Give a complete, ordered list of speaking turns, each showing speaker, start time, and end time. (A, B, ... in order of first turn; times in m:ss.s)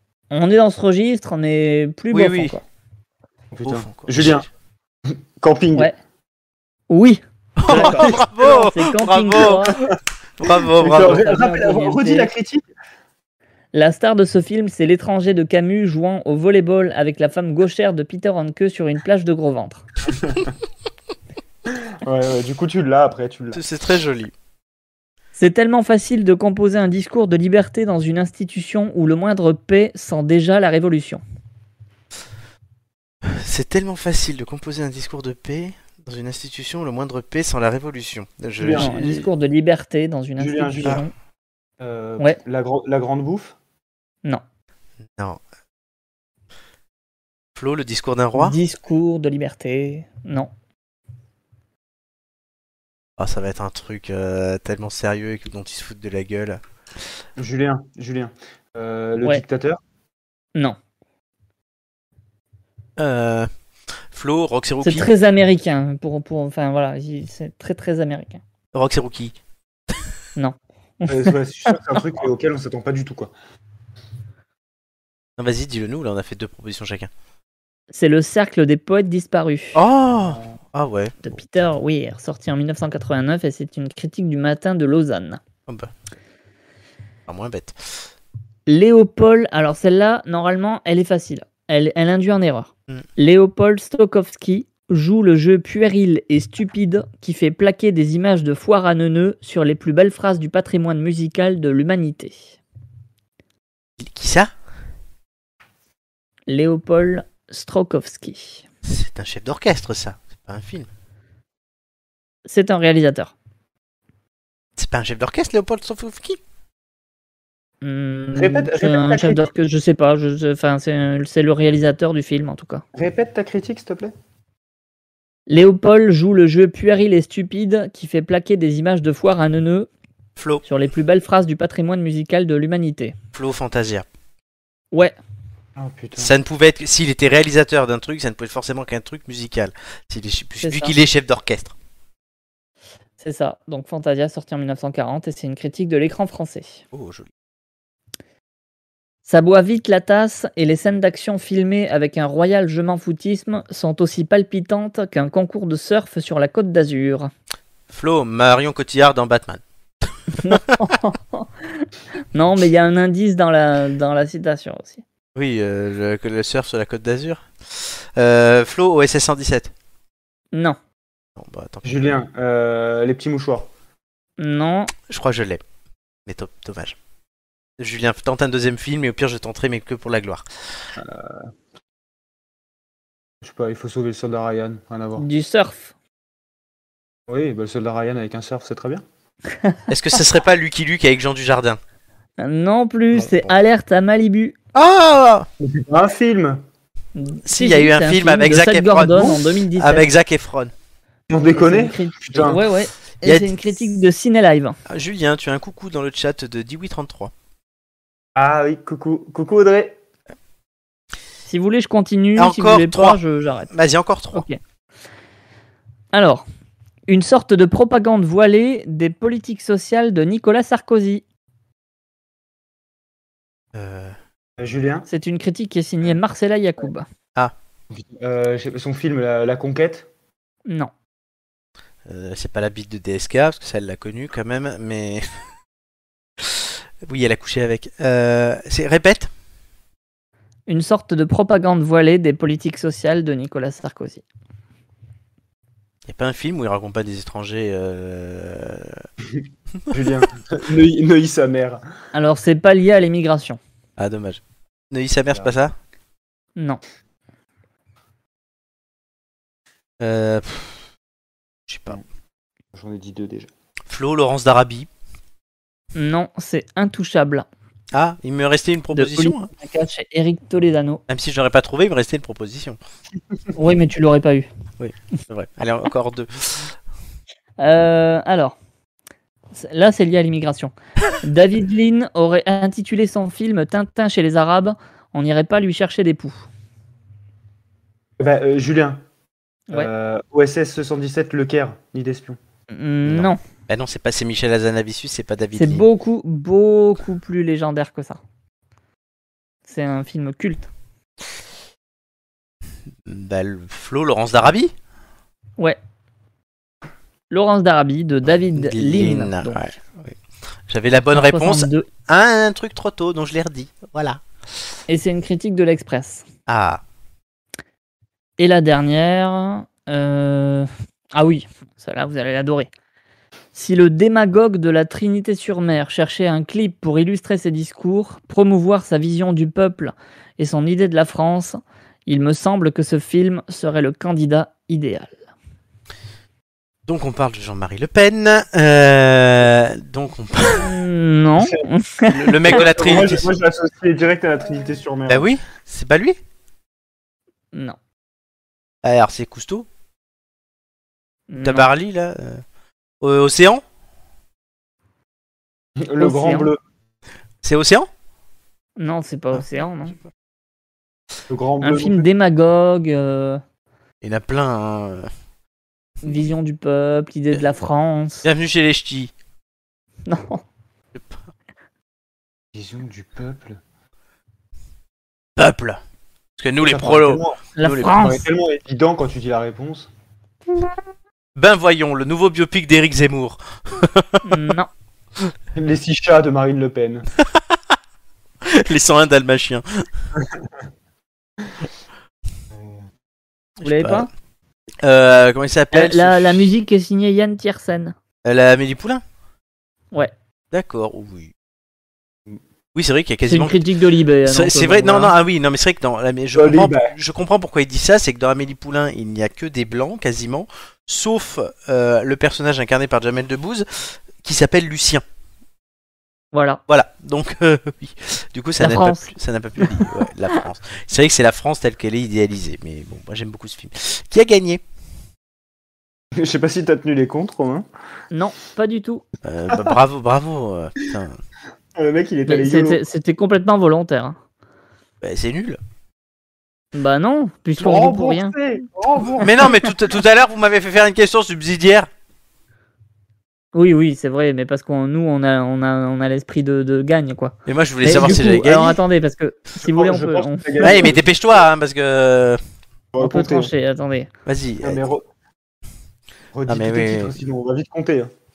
0:00.3-0:02.6 A
0:02.1-0:02.6 B
0:03.5-0:04.5 C
0:03.6-0:04.5 B
0:05.1-0:05.9 C
0:06.9-0:09.8 A
0:07.6-0:09.9 B
0:07.7-0:08.2 C
0:10.4-0:11.2 B
0:10.8-0:12.7 C
0:10.9-0:12.3 A
0:13.7-0:19.8 A
0:20.1-0:20.4 C
0:21.7-0:23.6 C
0:23.5-0:24.3 B
0:25.4-0:31.2 A
0:33.2-0:39.3 B
0:38.6-0:39.1 C
0:38.8-0:41.1 A
0:40.4-0:41.0 C
0:41.8-0:43.6 C
0:47.6-0:48.6 B
0:48.4-0:50.5 A
0:53.2-0:56.6 B
0:57.4-0:59.8 C
1:03.0-1:03.5 B
1:04.1-1:05.1 B
1:04.8-1:08.4 A
1:08.7-1:09.4 B
1:10.4-1:11.8 A
1:11.1-1:13.3 C
1:15.4-1:17.1 B
1:17.9-1:19.8 A
1:19.8-1:21.2 B
1:21.2-1:25.4 A
1:27.3-1:28.1 B
1:28.7-1:42.6 A
1:44.0-1:44.5 B
1:46.5-1:48.6 A
1:48.9-1:50.9 B
1:52.5-1:53.3 A
1:54.8-1:56.4 B
1:57.8-2:02.8 A
1:58.4-1:59.5 C
2:03.0-2:04.1 C
2:05.5-2:09.9 A
2:10.4-2:10.6 B
2:10.6-2:13.2 A
2:13.3-2:14.1 B
2:15.8-2:16.3 C
2:16.2-2:21.7 B
2:20.6-2:21.0 A
2:23.2-2:26.8 A
2:26.9-2:27.3 B
2:29.3-2:37.3 A
2:37.9-2:39.6 B
2:40.4-2:45.0 A
2:45.4-2:49.7 B
2:51.4-2:52.0 B
2:51.8-2:53.7 C
2:54.4-2:54.9 A
2:55.1-2:55.6 B
2:56.3-2:57.0 B
2:57.8-3:00.5 B
3:01.0-3:01.5 C
3:03.4-3:05.2 C
3:05.2-3:05.9 A
3:07.3-3:09.0 C
3:09.9-3:11.8 B
3:12.4-3:14.6 A
3:13.1-3:13.5 B
3:14.8-3:15.5 B
3:15.6-3:16.6 C
3:17.2-3:20.1 A
3:17.5-3:20.7 B
3:21.3-3:22.6 C
3:21.5-3:24.8 A
3:24.9-3:27.3 B
3:28.4-3:30.0 C
3:31.5-3:33.7 A
3:32.4-3:33.2 B
3:33.7-3:34.4 B
3:36.1-3:36.4 A
3:37.1-3:41.2 A
3:43.7-3:44.1 B
3:44.6-3:45.1 C
3:45.1-3:47.1 A
3:47.9-3:50.1 C
3:50.7-3:50.9 A
3:52.1-3:55.3 B
3:56.4-3:59.3 B
4:00.7-4:04.2 A
4:06.1-4:09.0 B
4:09.3-4:11.8 C
4:12.1-4:13.6 A
4:14.0-4:15.7 B
4:20.0-4:20.8 B
4:21.7-4:22.0 B
4:22.7-4:23.5 C
4:23.9-4:24.9 B
4:26.0-4:27.5 A
4:27.9-4:29.5 B
4:28.9-4:31.0 A
4:31.1-4:32.8 B
4:33.6-4:34.5 A
4:34.8-4:36.7 B
4:37.6-4:38.6 A
4:39.5-4:46.5 A
4:48.2-4:49.0 C
4:49.7-4:52.4 C
4:52.7-4:53.4 A
4:53.1-4:55.9 B
4:55.6-4:58.2 A
4:59.7-5:00.7 A
5:03.1-5:04.7 B
5:07.3-5:09.7 A
5:08.6-5:10.2 B
5:10.7-5:14.2 B
5:11.1-5:11.9 A
5:14.9-5:16.3 A
5:16.5-5:16.8 B
5:18.4-5:22.7 A
5:23.6-5:35.2 A
5:36.9-5:40.7 B
5:40.6-5:42.6 A
5:42.1-5:43.3 B
5:42.5-5:45.3 C
5:45.1-5:46.2 B
5:48.8-5:49.7 B
5:51.3-5:51.7 A
5:51.4-5:52.4 B
5:53.0-5:53.6 B
5:55.8-5:56.6 C
5:56.0-5:56.5 A
5:57.4-5:57.9 B
5:58.8-6:00.0 A
6:01.3-6:02.1 C
6:01.6-6:03.4 A
6:04.0-6:05.1 B
6:06.0-6:08.3 A
6:08.2-6:09.1 B
6:10.1-6:10.4 A
6:12.5-6:13.6 C
6:15.4-6:15.8 B
6:16.4-6:18.0 B
6:16.6-6:17.4 C
6:17.6-6:18.2 A
6:18.0-6:19.9 C
6:21.4-6:24.2 B
6:24.3-6:24.7 A
6:25.6-6:27.1 C
6:28.4-6:29.8 B
6:32.5-6:32.8 C
6:33.6-6:34.1 B
6:33.6-6:34.1 A
6:34.8-6:36.5 B
6:35.7-6:37.9 A
6:38.2-6:39.0 B
6:40.5-6:41.3 B
6:42.8-6:43.6 B
6:43.3-6:45.1 A
6:44.3-6:55.0 B
6:46.3-6:46.9 C
6:56.3-6:56.6 A
6:56.7-7:04.6 B
6:58.6-6:59.1 A
7:06.2-7:07.7 C
7:08.1-7:09.0 A
7:09.2-7:11.2 B
7:11.8-7:12.8 C
7:12.3-7:14.2 A
7:15.0-7:15.6 B
7:16.8-7:18.4 A
7:17.6-7:19.5 C
7:19.2-7:21.9 B
7:23.5-7:30.9 A
7:27.5-7:28.8 B
7:27.9-7:28.4 C
7:29.6-7:31.0 C
7:30.6-7:32.4 B
7:32.9-7:33.5 C
7:33.0-7:34.1 A
7:34.3-7:34.8 B
7:34.6-7:35.0 C
7:36.3-7:38.1 C
7:36.5-7:37.1 B